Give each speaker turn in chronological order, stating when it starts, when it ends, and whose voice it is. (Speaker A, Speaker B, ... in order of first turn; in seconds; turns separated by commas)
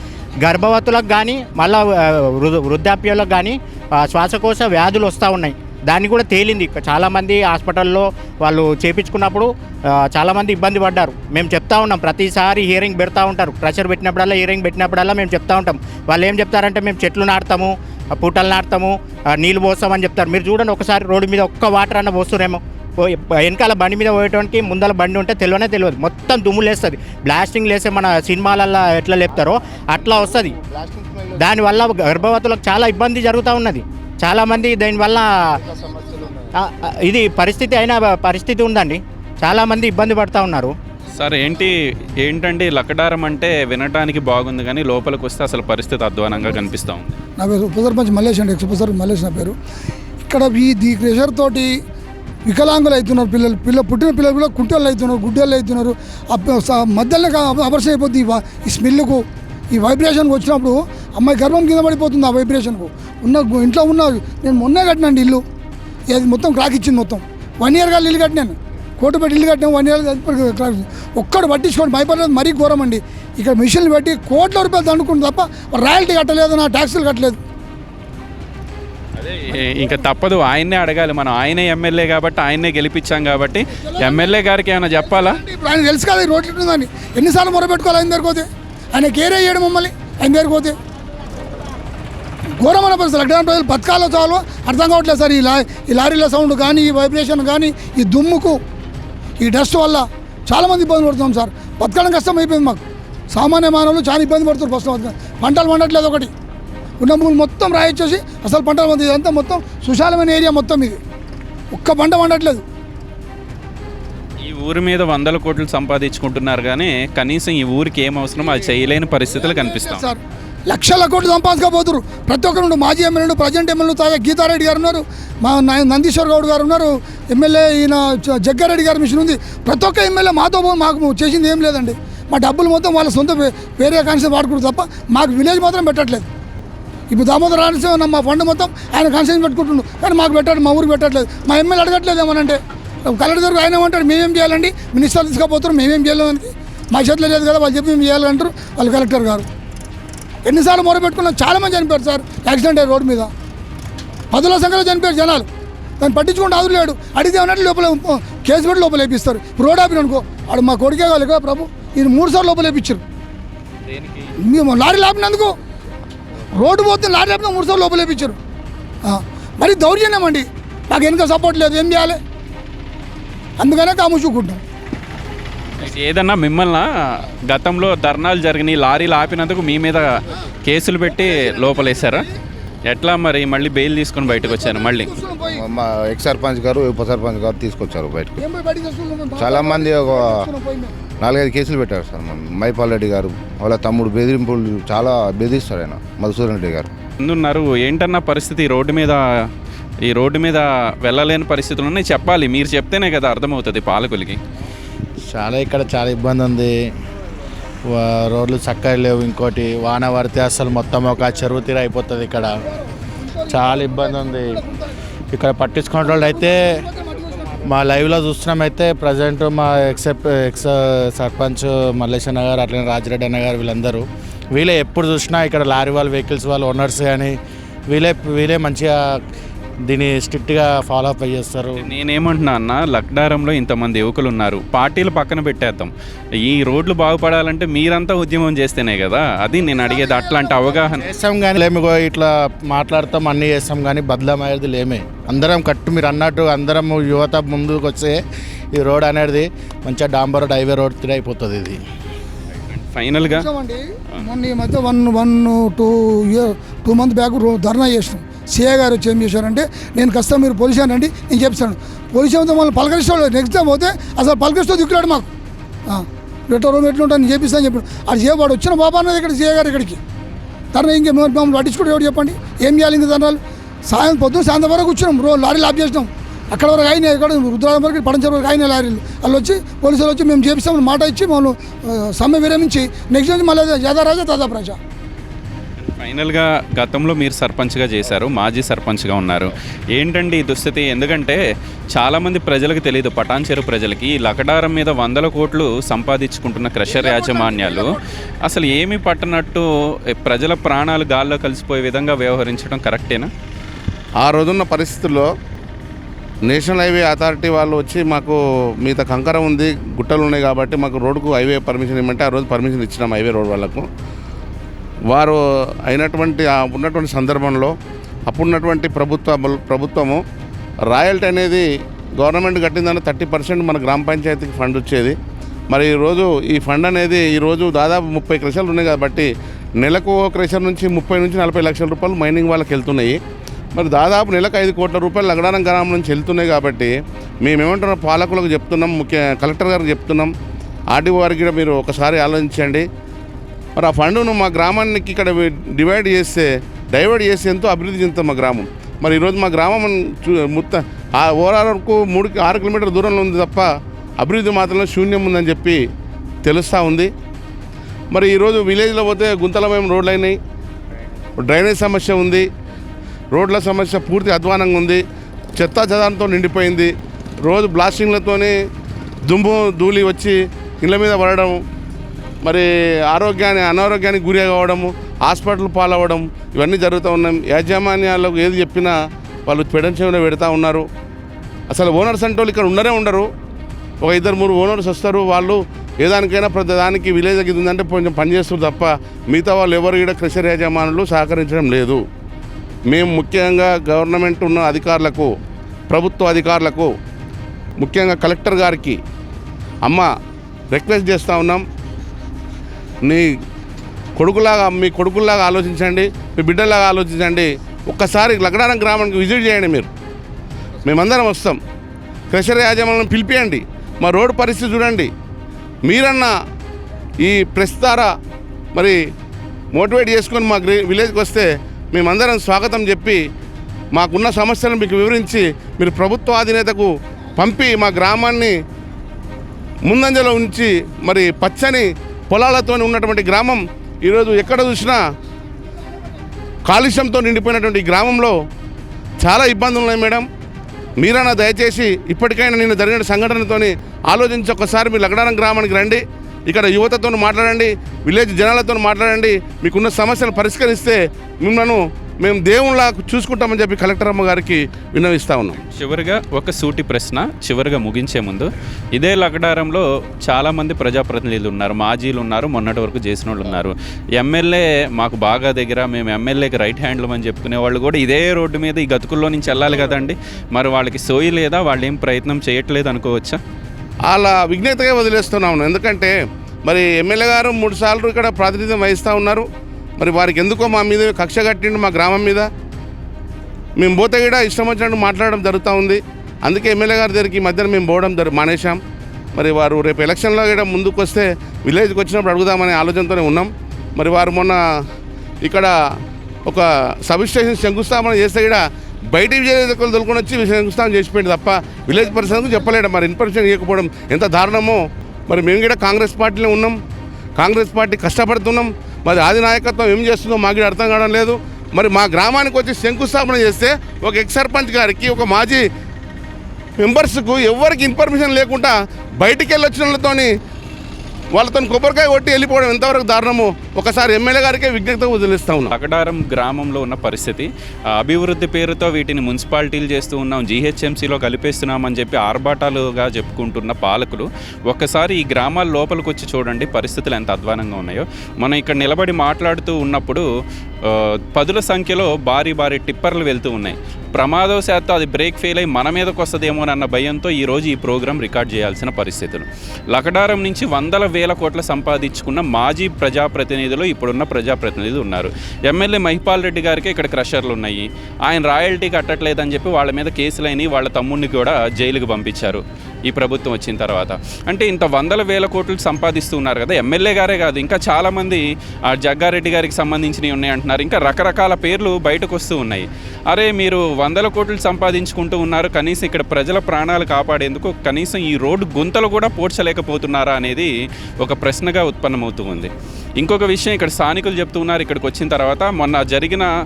Speaker A: 0.4-30.5, Speaker B: 29.3-31.9, Speaker A: 31.4-35.3, Speaker B: 35.5-36.5, Speaker A: 36.6-40.7, Speaker C: 41.1-47.1, Speaker D: 47.4-49.5, Speaker D: 50.3-51.7, Speaker D: 52.5-65.4, Speaker D: 66.1-77.4, Speaker C: 79.2-85.4, Speaker D: 83.7-84.3, Speaker D: 85.0-90.8, Speaker D: 92.6-98.6, Speaker D: 99.4-106.3, Speaker D: 107.0-111.0, Speaker D: 111.7-112.6, Speaker C: 114.4-120.0, Speaker D: 118.5-120.2, Speaker D: 120.7-136.3, Speaker D: 137.1-149.5, Speaker D: 150.4-153.3, Speaker D: 154.3-155.5, Speaker D: 156.0-163.0, Speaker D: 164.4-165.6, Speaker D: 166.5-168.4, Speaker D: 169.1-172.2, Speaker D: 173.6-174.6, Speaker C: 175.8-182.3, Speaker C: 182.9-185.1, Speaker D: 184.3-185.6, Speaker B: 185.4-188.4, Speaker D: 188.4-190.9, Speaker B: 189.4-190.5, Speaker B: 191.2-196.9, Speaker C: 197.2-199.5, Speaker C: 200.1-204.4, Speaker E: 205.2-206.8, Speaker E: 207.9-212.5, Speaker D: 213.0-214.9, Speaker E: 213.5-214.6, Speaker E: 215.3-216.8, Speaker D: 216.0-217.6, Speaker E: 217.7-227.4, Speaker E: 227.9-229.0, Speaker E: 229.9-231.9, Speaker C: 231.8-241.0, Speaker D: 239.7-241.0, Speaker E: 241.0-248.2, Speaker E: 248.7-251.8, Speaker C: 252.7-253.5, Speaker D: 253.3-265.3, Speaker D: 265.9-270.0, Speaker D: 270.7-284.8, Speaker C: 285.8-291.4, Speaker C: 291.9-303.3, Speaker F: 304.2-305.3, Speaker F: 306.4-313.9, Speaker F: 315.1-317.8, Speaker F: 318.3-320.2, Speaker F: 320.9-321.7, Speaker F: 322.2-325.2, Speaker F: 325.7-333.2, Speaker F: 333.7-340.3, Speaker F: 340.9-342.9, Speaker F: 343.8-355.8, Speaker F: 356.4-357.1, Speaker F: 358.1-360.4, Speaker F: 361.4-362.5, Speaker F: 363.3-365.0, Speaker F: 365.6-368.5, Speaker F: 369.3-371.6, Speaker F: 372.4-378.9, Speaker F: 379.5-380.9, Speaker F: 381.7-383.3, Speaker F: 384.0-392.0, Speaker F: 392.9-395.3, Speaker F: 395.9-396.9, Speaker F: 397.8-399.0, Speaker F: 399.8-400.1, Speaker F: 400.7-401.6, Speaker F: 403.0-403.3, Speaker F: 404.2-409.9, Speaker F: 410.8-411.6, Speaker F: 412.3-415.1, Speaker F: 415.8-416.3, Speaker F: 417.2-418.1, Speaker F: 419.7-423.2, Speaker F: 423.9-428.5, Speaker F: 429.9-435.0, Speaker F: 436.6-438.3, Speaker F: 439.2-440.2, Speaker F: 441.0-455.6, Speaker C: 455.6-473.4, Speaker F: 474.1-479.4, Speaker F: 480.0-482.5, Speaker F: 483.8-488.8, Speaker F: 489.3-494.6, Speaker F: 495.4-495.7, Speaker F: 496.4-506.8, Speaker F: 507.4-515.6, Speaker F: 516.8-520.3, Speaker F: 521.3-525.7, Speaker C: 525.7-540.2, Speaker C: 540.8-586.5